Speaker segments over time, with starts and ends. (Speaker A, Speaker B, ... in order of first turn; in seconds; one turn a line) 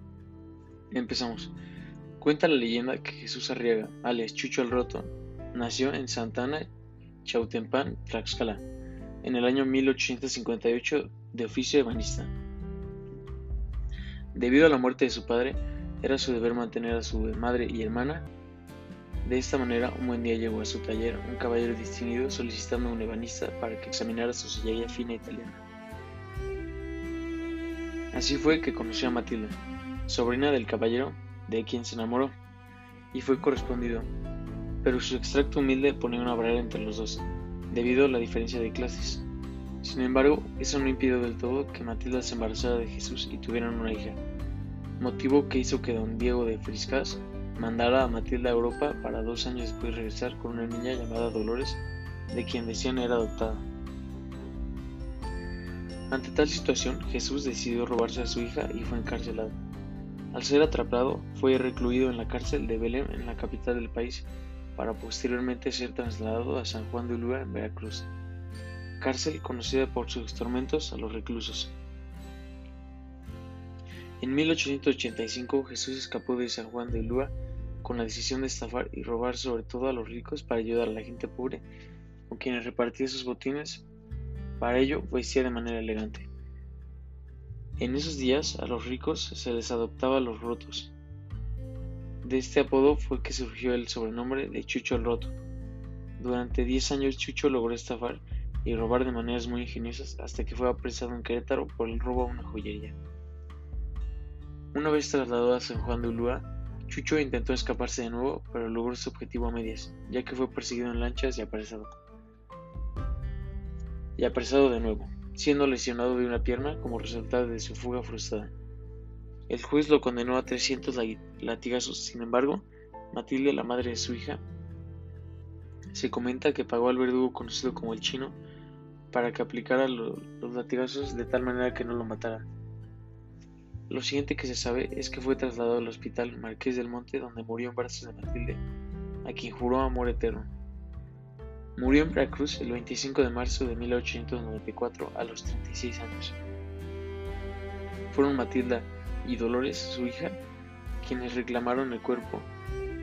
Speaker A: 0.9-1.5
Speaker A: 2.2-6.7
Speaker A: 7.2-8.6
Speaker A: 9.2-12.3
Speaker A: 14.3-18.3
Speaker A: 19.2-25.6
Speaker A: 28.1-32.3
Speaker A: 33.1-34.1
Speaker A: 34.8-39.3
Speaker A: 39.8-44.2
Speaker A: 45.0-53.7
Speaker A: 56.1-59.5
Speaker A: 60.3-68.1
Speaker A: 69.0-71.8
Speaker A: 74.2-81.6
Speaker A: 82.3-83.9
Speaker A: 84.6-86.3
Speaker A: 87.8-90.9
Speaker A: 92.2-95.3
Speaker A: 96.2-103.0
Speaker A: 104.7-111.9
Speaker A: 114.2-118.5
Speaker A: 119.5-124.4
Speaker A: 125.9-128.4
Speaker A: 129.1-132.4
Speaker A: 133.9-138.6
Speaker A: 139.2-140.5
Speaker A: 141.8-146.4
Speaker A: 148.1-150.4
Speaker A: 151.0-152.5